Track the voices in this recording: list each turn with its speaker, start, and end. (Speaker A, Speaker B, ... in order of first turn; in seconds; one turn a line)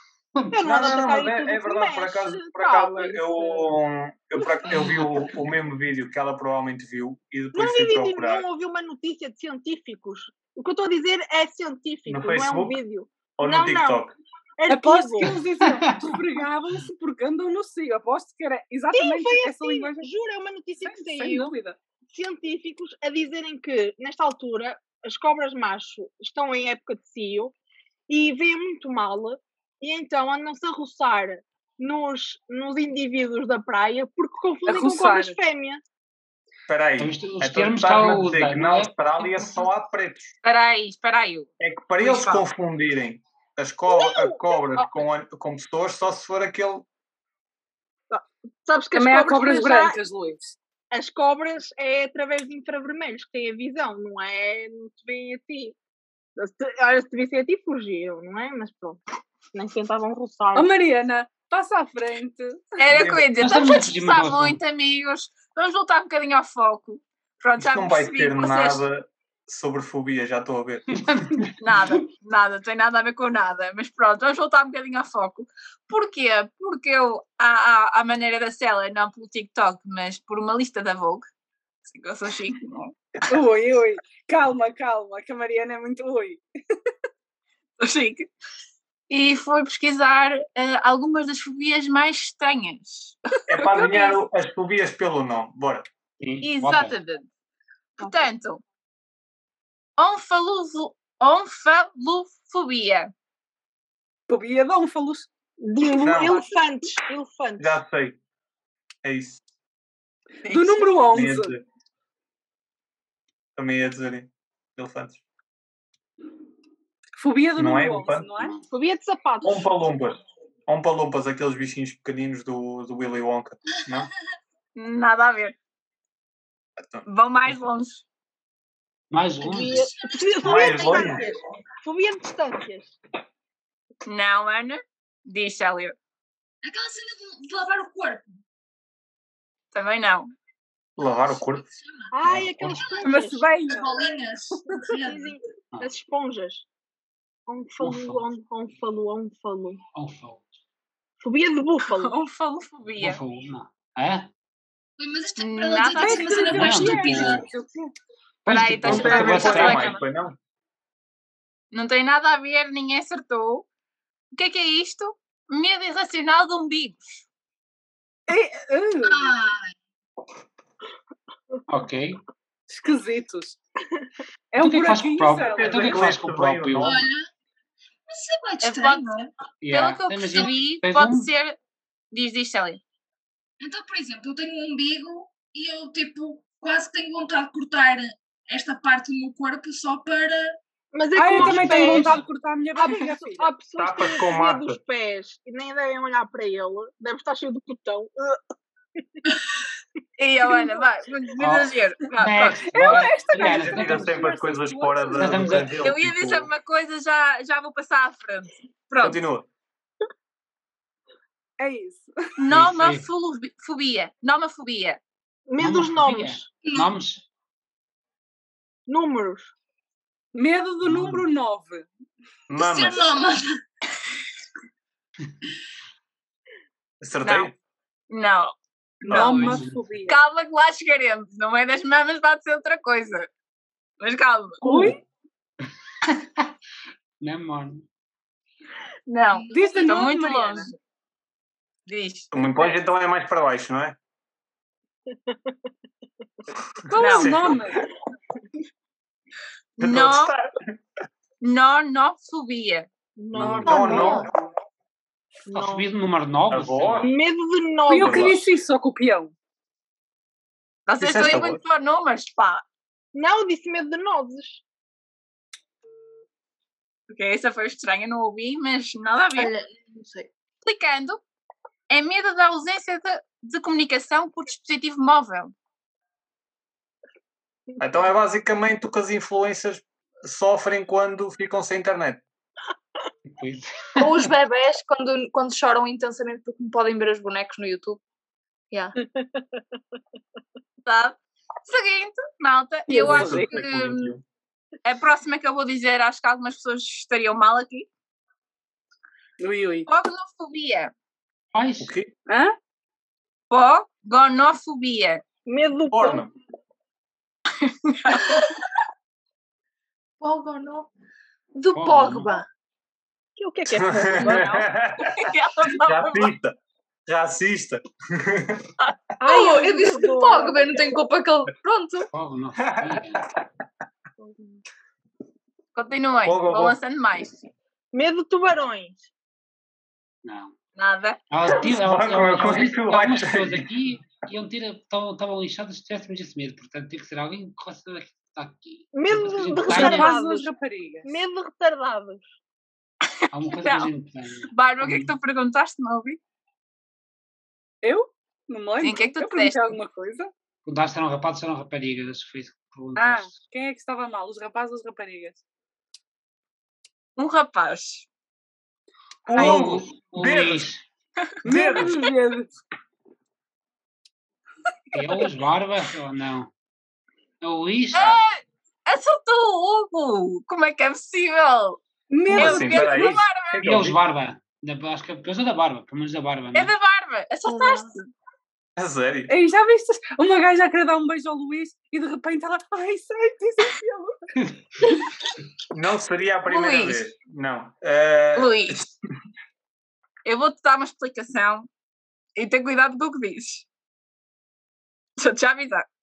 Speaker A: 0.5-3.7
Speaker B: 0.6-8.5
Speaker C: 4.7-5.3
Speaker A: 7.5-14.0
Speaker B: 12.1-12.8
Speaker B: 13.4-14.2
Speaker A: 14.6-15.3
Speaker D: 14.7-20.1
Speaker C: 15.2-16.0
Speaker A: 18.9-21.5
Speaker D: 20.8-21.8
Speaker A: 22.1-27.6
Speaker A: 28.1-35.8
Speaker D: 34.7-35.4
Speaker B: 36.7-40.4
Speaker C: 37.0-39.7
Speaker E: 40.4-42.5
Speaker B: 41.6-46.9
Speaker A: 43.9-44.9
Speaker A: 48.1-50.0
Speaker D: 48.9-50.6
Speaker A: 50.9-55.8
Speaker A: 56.4-59.0
Speaker A: 59.5-60.7
Speaker D: 60.5-62.8
Speaker E: 62.8-68.8
Speaker B: 62.9-63.3
Speaker C: 63.4-64.6
Speaker B: 67.6-71.0
Speaker C: 70.9-71.5
Speaker E: 71.6-81.3
Speaker E: 81.8-83.0
Speaker D: 83.3-86.4
Speaker E: 87.8-88.3
Speaker E: 89.1-94.2
Speaker B: 93.5-95.9
Speaker C: 96.2-97.0
Speaker E: 96.4-97.3
Speaker E: 98.0-98.6
Speaker E: 100.0-103.1
Speaker D: 104.3-105.3
Speaker A: 105.6-107.8
Speaker B: 106.0-106.4
Speaker B: 107.6-108.2
Speaker B: 109.0-109.4
Speaker E: 110.5-110.9
Speaker D: 110.5-111.5
Speaker B: 111.1-111.6
Speaker B: 113.6-115.2
Speaker D: 117.2-118.5
Speaker B: 117.6-118.3
Speaker A: 118.7-119.7
Speaker B: 119.4-124.1
Speaker E: 124.8-125.6
Speaker E: 127.0-128.0
Speaker C: 129.1-129.9
Speaker A: 129.4-133.0
Speaker F: 129.4-131.4
Speaker B: 130.4-131.3
Speaker E: 134.1-135.9
Speaker F: 136.6-138.4
Speaker E: 139.7-140.3
Speaker B: 141.0-141.7
Speaker F: 141.2-142.2
Speaker A: 142.1-143.5
Speaker C: 142.2-142.8
Speaker F: 142.7-143.1
Speaker E: 143.1-143.8
Speaker F: 143.7-145.4
Speaker A: 144.9-146.7
Speaker A: 147.5-149.8
Speaker C: 147.8-148.3
Speaker C: 149.9-150.4
Speaker A: 151.2-152.2
Speaker E: 151.9-153.2
Speaker C: 153.0-154.3
Speaker F: 155.0-157.5
Speaker E: 155.4-156.5
Speaker D: 155.9-157.9
Speaker C: 156.5-157.5
Speaker C: 158.5-160.0
Speaker E: 158.5-160.0
Speaker B: 158.8-160.4
Speaker E: 161.7-163.7
Speaker E: 164.3-167.2
Speaker D: 168.3-169.4
Speaker F: 169.0-169.7
Speaker C: 171.7-172.2
Speaker D: 172.7-173.6
Speaker D: 174.5-176.0
Speaker C: 174.6-177.1
Speaker B: 175.5-177.0
Speaker F: 176.8-177.3
Speaker F: 178.1-179.3
Speaker E: 178.6-181.6
Speaker C: 179.6-181.3
Speaker E: 182.1-182.8
Speaker F: 183.6-190.6
Speaker A: 190.9-192.2
Speaker D: 191.2-193.5
Speaker C: 191.3-192.2
Speaker A: 192.8-198.4
Speaker B: 193.8-194.8
Speaker E: 200.2-203.4
Speaker C: 201.4-204.5
Speaker D: 202.7-205.6
Speaker B: 203.4-206.5
Speaker C: 205.2-205.9
Speaker E: 205.8-209.2
Speaker B: 209.0-209.5
Speaker D: 211.6-212.1
Speaker E: 212.4-215.0
Speaker C: 212.5-213.1
Speaker A: 215.5-216.5
Speaker C: 215.6-217.2
Speaker F: 216.6-216.9
Speaker A: 218.9-219.5
Speaker D: 220.3-221.9
Speaker C: 220.8-221.3
Speaker B: 222.5-223.1
Speaker F: 222.6-223.5
Speaker B: 227.0-227.5
Speaker E: 227.2-227.5
Speaker E: 228.1-228.5
Speaker B: 229.1-229.6
Speaker D: 229.1-230.2
Speaker E: 229.1-229.5
Speaker C: 229.2-229.8
Speaker E: 230.1-233.3
Speaker E: 234.0-234.6
Speaker D: 234.6-235.0
Speaker B: 234.7-234.9
Speaker C: 236.1-236.5
Speaker C: 237.2-237.9
Speaker E: 239.1-240.8
Speaker F: 239.3-239.9
Speaker D: 239.5-240.7
Speaker E: 241.9-242.3
Speaker B: 242.3-244.0
Speaker D: 246.9-247.8
Speaker B: 246.9-247.8
Speaker E: 247.0-247.3
Speaker E: 249.8-250.3
Speaker B: 249.8-250.7
Speaker E: 251.4-252.9
Speaker A: 253.2-254.3
Speaker B: 253.3-254.3
Speaker C: 253.3-254.3
Speaker A: 255.5-255.9
Speaker C: 255.5-257.1
Speaker B: 256.5-257.1
Speaker A: 257.0-258.4
Speaker D: 257.9-259.3
Speaker B: 258.0-258.4
Speaker E: 260.9-262.6
Speaker B: 261.0-261.6
Speaker A: 263.1-264.6
Speaker E: 267.1-269.5
Speaker F: 269.4-270.3
Speaker E: 270.6-271.2
Speaker E: 271.9-275.5
Speaker B: 277.8-282.2
Speaker C: 283.3-284.3
Speaker F: 284.0-288.0
Speaker F: 288.7-289.0
Speaker E: 290.9-294.1
Speaker D: 292.9-293.5
Speaker B: 292.9-294.2
Speaker E: 294.8-297.9
Speaker D: 299.4-299.9
Speaker E: 299.9-300.9
Speaker C: 301.5-301.9
Speaker B: 301.8-302.1
Speaker D: 302.3-302.6
Speaker E: 303.5-305.2
Speaker A: 305.5-306.3
Speaker B: 305.9-306.3
Speaker E: 307.6-308.4
Speaker F: 310.2-310.9
Speaker F: 311.5-312.5
Speaker C: 311.8-312.3
Speaker A: 313.4-314.7
Speaker B: 313.7-318.7
Speaker E: 315.0-316.3
Speaker A: 319.2-320.8
Speaker F: 319.2-322.1
Speaker C: 322.1-323.2
Speaker B: 322.6-323.3
Speaker A: 324.2-324.6
Speaker E: 325.8-327.5
Speaker B: 326.2-326.8
Speaker A: 327.9-329.0
Speaker C: 330.2-330.6
Speaker E: 330.8-331.2
Speaker C: 331.3-340.2
Speaker B: 331.5-333.7
Speaker A: 338.9-340.5
Speaker D: 339.7-341.1
Speaker A: 341.1-342.3
Speaker C: 343.3-345.1
Speaker E: 343.5-343.9
Speaker E: 344.5-346.2
Speaker D: 347.8-350.3
Speaker E: 348.8-349.8
Speaker C: 350.6-353.4
Speaker D: 353.0-355.4
Speaker E: 357.2-358.1
Speaker B: 359.3-360.7
Speaker C: 359.3-360.8
Speaker B: 361.4-362.1
Speaker D: 361.4-362.5
Speaker C: 364.9-366.5
Speaker C: 367.4-368.2
Speaker E: 367.9-371.8
Speaker D: 372.1-373.2
Speaker B: 372.3-374.0
Speaker E: 372.3-373.7
Speaker C: 373.6-376.7
Speaker E: 376.5-378.1
Speaker B: 378.8-379.3
Speaker D: 379.3-384.2
Speaker B: 385.7-388.9
Speaker E: 386.5-387.1
Speaker E: 388.4-388.9
Speaker E: 390.2-391.7
Speaker E: 392.4-393.7
Speaker E: 395.2-395.9